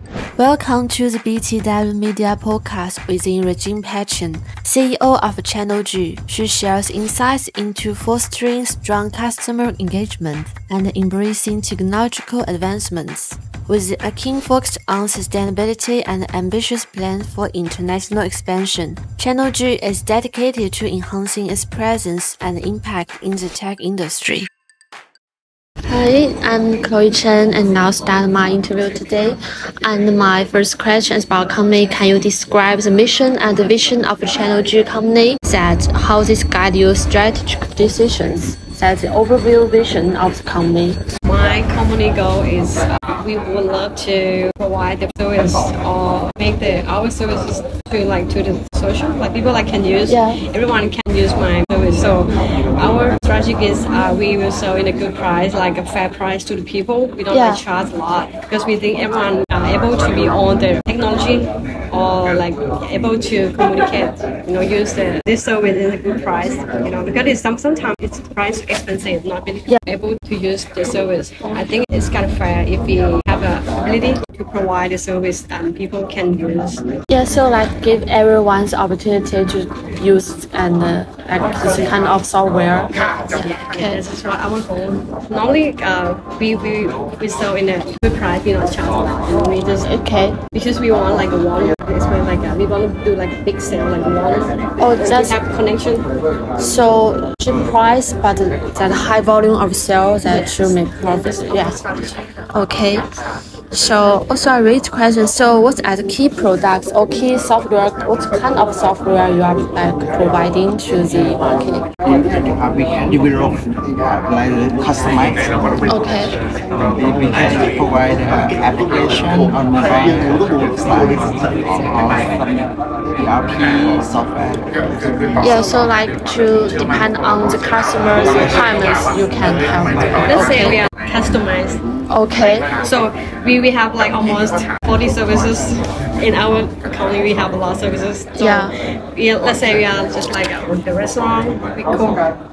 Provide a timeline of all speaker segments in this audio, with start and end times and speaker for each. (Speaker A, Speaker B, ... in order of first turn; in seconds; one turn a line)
Speaker A: 0.4-24.5
Speaker A: 25.9-41.0
Speaker B: 41.2-76.8
Speaker A: 50.1-50.4
Speaker A: 57.3-57.6
Speaker A: 77.1-84.0
Speaker B: 81.5-81.9
Speaker B: 83.3-89.9
Speaker A: 89.8-90.4
Speaker B: 90.5-96.1
Speaker A: 94.8-95.4
Speaker A: 96.6-101.8
Speaker B: 100.2-102.2
Speaker A: 102.5-103.0
Speaker A: 103.7-111.9
Speaker C: 112.0-116.0
Speaker A: 115.9-116.3
Speaker C: 116.8-125.5
Speaker A: 125.4-130.8
Speaker C: 128.2-128.7
Speaker B: 130.2-131.8
Speaker A: 132.1-132.7
Speaker B: 132.8-142.2
Speaker A: 138.3-138.7